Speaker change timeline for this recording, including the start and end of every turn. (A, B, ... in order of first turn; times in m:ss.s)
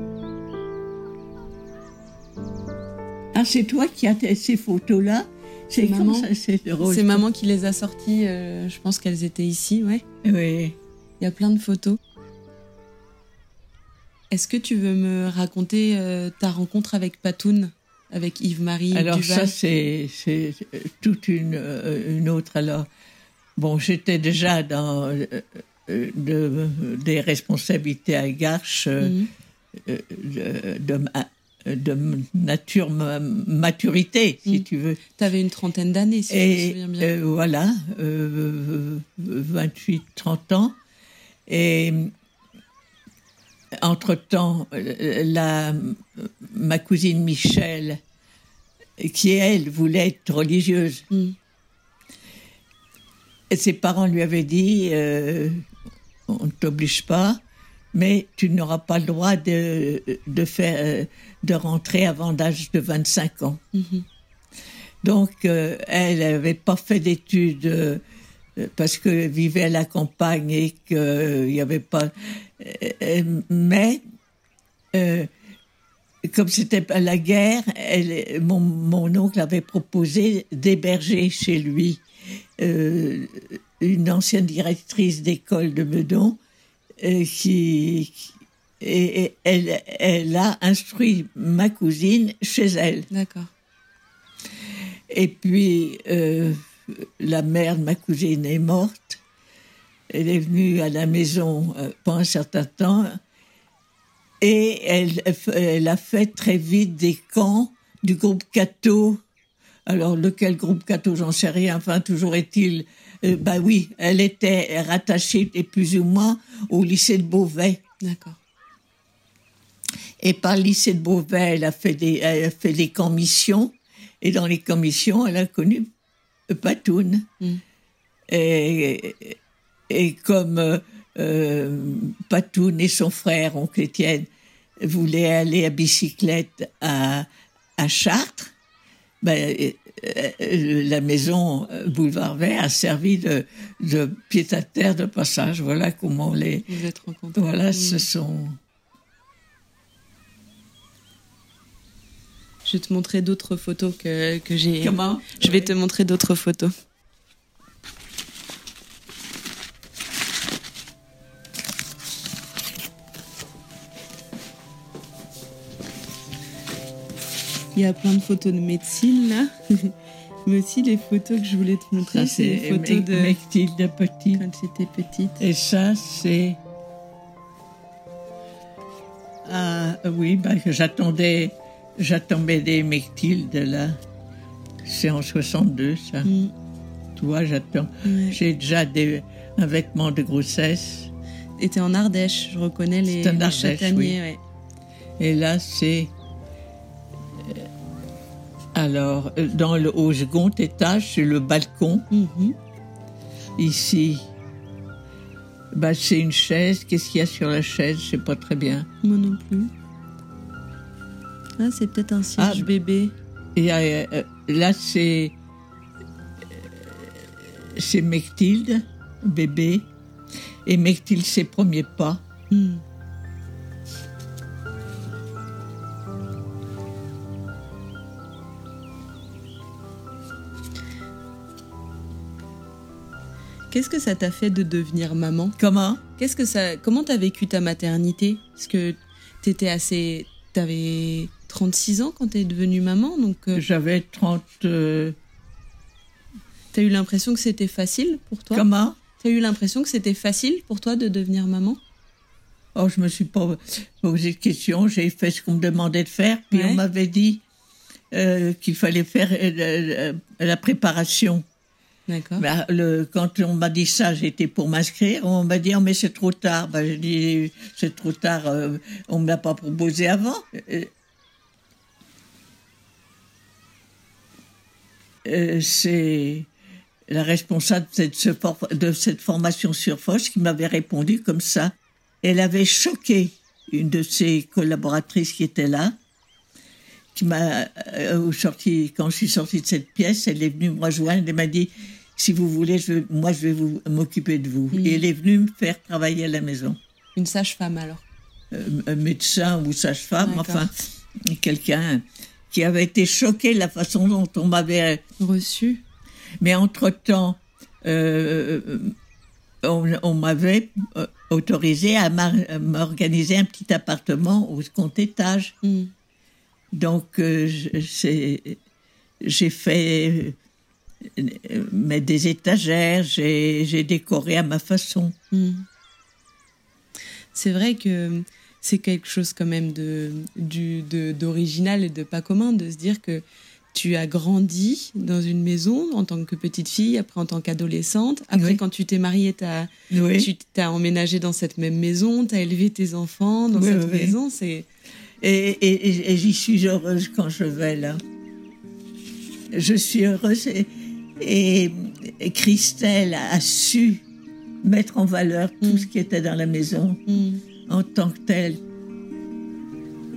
0:03.3-0:07.2 A
0:05.8-0:06.3 B
0:06.8-0:10.0 B
0:10.2-0:10.8 A
0:11.2-0:12.0 B
0:14.3-0:19.5 B
0:18.9-0:22.9 A
0:23.6-0:29.2 A
0:29.0-0:29.3 B
0:29.8-0:35.2 A
0:34.4-0:37.1 B
0:36.3-0:40.8 A
0:41.5-0:42.1 A
0:43.8-0:48.0 A
0:49.0-0:51.0 A
0:53.5-0:55.6 A
0:56.3-0:57.4 A
0:57.9-1:03.6 A
1:03.7-1:04.0 B
1:05.0-1:08.0 A
1:08.6-1:14.0 A
1:14.9-1:15.3 A
1:16.3-1:22.0 A
1:22.6-1:26.4 A
1:27.0-1:33.1 A
1:33.1-1:33.5 B
1:35.1-1:39.2 A
1:40.1-1:43.2 A
1:44.4-1:49.2 A
1:49.9-1:57.8 A
1:58.0-1:58.4 B
2:00.2-2:05.8 A
2:06.5-2:07.3 A
2:08.3-2:09.4 A
2:09.9-2:14.3 A
2:14.8-2:17.3 A
2:17.8-2:18.5 A
2:19.2-2:26.7 A
2:26.7-2:28.1 B
2:27.4-2:28.6 A
2:32.6-2:36.7 B
2:34.8-2:35.7 A
2:47.7-2:49.9 B
2:50.4-2:53.4 B
2:52.0-2:54.4 A
2:54.3-2:55.4 B
2:55.4-2:56.6 A
2:59.4-3:04.0 A
3:04.8-3:06.3 A
3:06.2-3:06.5 B
3:07.2-3:11.1 A
3:08.0-3:08.4 B
3:11.6-3:14.4 B
3:13.1-3:14.2 A
3:15.2-3:16.1 A
3:18.7-3:22.1 A
3:22.1-3:22.6 B
3:23.6-3:24.2 A
3:25.7-3:28.9 A
3:29.0-3:29.7 B
3:31.6-3:33.1 B
3:32.4-3:32.7 A
3:33.6-3:35.3 A
3:36.8-3:39.8 A
3:40.6-3:42.2 A
3:42.5-3:42.8 B
3:53.7-3:55.6 B
3:55.6-3:56.0 A
3:56.2-4:03.6 B
4:03.5-4:05.2 A
4:06.7-4:08.6 B
4:08.5-4:09.0 A
4:09.2-4:11.8 B
4:12.7-4:17.4 A
4:16.5-4:16.8 B
4:18.1-4:21.4 A
4:22.1-4:22.4 B
4:22.4-4:30.9 A
4:35.2-4:36.5 A
4:37.1-4:46.0 A
4:47.1-4:56.8 A
4:54.7-4:55.0 B
4:57.2-4:58.0 B
4:58.5-5:00.7 A
5:00.2-5:00.7 B
5:01.2-5:05.0 A
5:05.2-5:05.8 B
5:06.4-5:08.9 A
5:09.6-5:15.5 A
5:15.6-5:15.9 B
5:16.7-5:18.6 A
5:19.2-5:20.4 A
5:21.2-5:25.1 A
5:25.3-5:25.7 B
5:27.3-5:44.7 B
5:38.3-5:38.6 A
5:39.9-5:40.3 A
5:43.5-5:44.2 A
5:45.2-5:48.0 A
5:49.5-5:54.0 A
5:54.6-5:57.0 A
5:55.6-5:55.9 B
5:57.1-5:57.4 B
5:57.7-5:58.6 A